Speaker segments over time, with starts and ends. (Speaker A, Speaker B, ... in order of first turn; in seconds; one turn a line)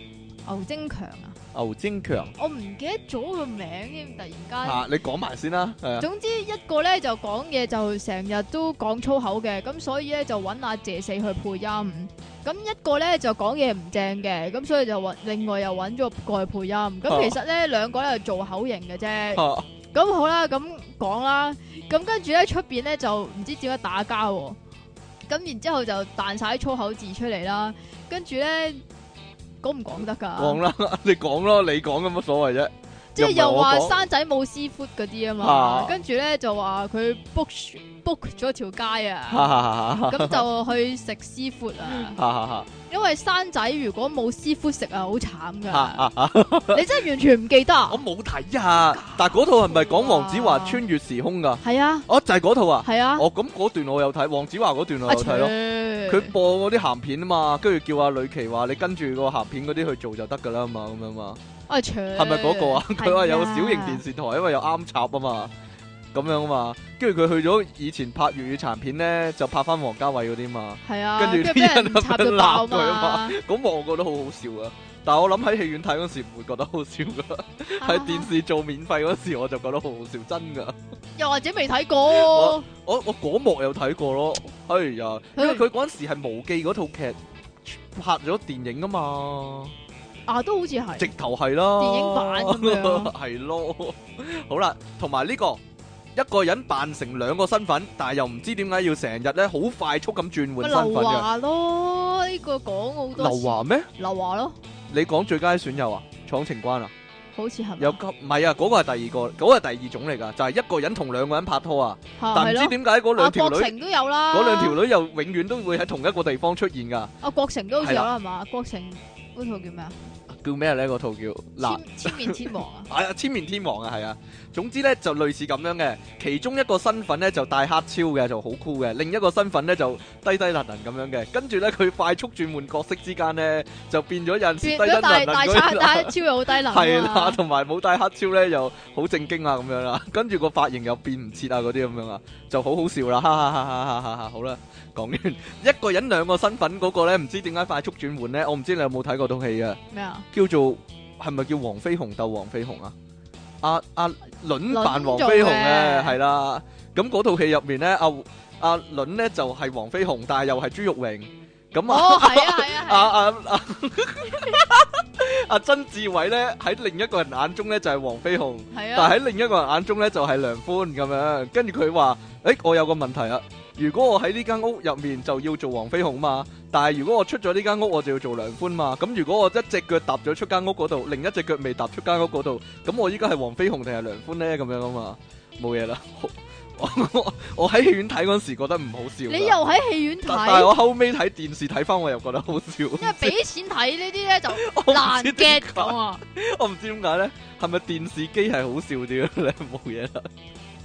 Speaker A: 0.5-1.4
Speaker B: 1.5-2.3
Speaker A: 2.4-4.8
Speaker B: 4.6-6.1
Speaker A: 6.0-24.6
Speaker B: 17.1-17.4
Speaker B: 19.3-19.7
Speaker A: 25.3-28.8
Speaker A: 29.6-30.6
Speaker B: 30.4-34.0
Speaker A: 33.1-42.2
Speaker B: 35.4-36.0
Speaker B: 39.3-40.4
Speaker B: 41.9-42.7
Speaker A: 42.9-46.0
Speaker B: 45.7-46.9
Speaker A: 46.7-48.0
Speaker B: 47.9-55.5
Speaker A: 48.8-50.8
Speaker A: 51.6-52.1
Speaker A: 52.8-53.3
Speaker A: 55.0-56.3
Speaker B: 56.1-61.4
Speaker A: 61.7-64.0
Speaker B: 62.1-65.5
Speaker B: 66.1-80.8
Speaker A: 70.8-73.4
Speaker A: 77.8-78.3
Speaker A: 81.2-82.7
Speaker B: 82.1-89.7
Speaker A: 85.3-85.6
Speaker A: 90.3-91.1
Speaker B: 91.0-95.6
Speaker A: 91.8-93.1
Speaker B: 96.1-101.3
Speaker A: 100.6-104.5
Speaker B: 103.2-103.9
Speaker B: 104.9-106.9
Speaker A: 107.3-108.0
Speaker B: 107.8-113.7
Speaker A: 112.2-114.8
Speaker B: 114.3-117.1
Speaker A: 117.2-120.0
Speaker B: 117.8-118.1
Speaker B: 120.3-149.8
Speaker A: 121.6-122.9
Speaker A: 134.6-137.4
Speaker A: 149.9-150.2
Speaker B: 150.3-152.9
Speaker B: 153.6-189.6
Speaker A: 154.7-156.2
Speaker A: 161.8-163.1
Speaker A: 168.7-169.1
Speaker A: 189.3-190.8
Speaker B: 190.2-193.4
Speaker A: 193.0-196.2
Speaker B: 194.5-200.3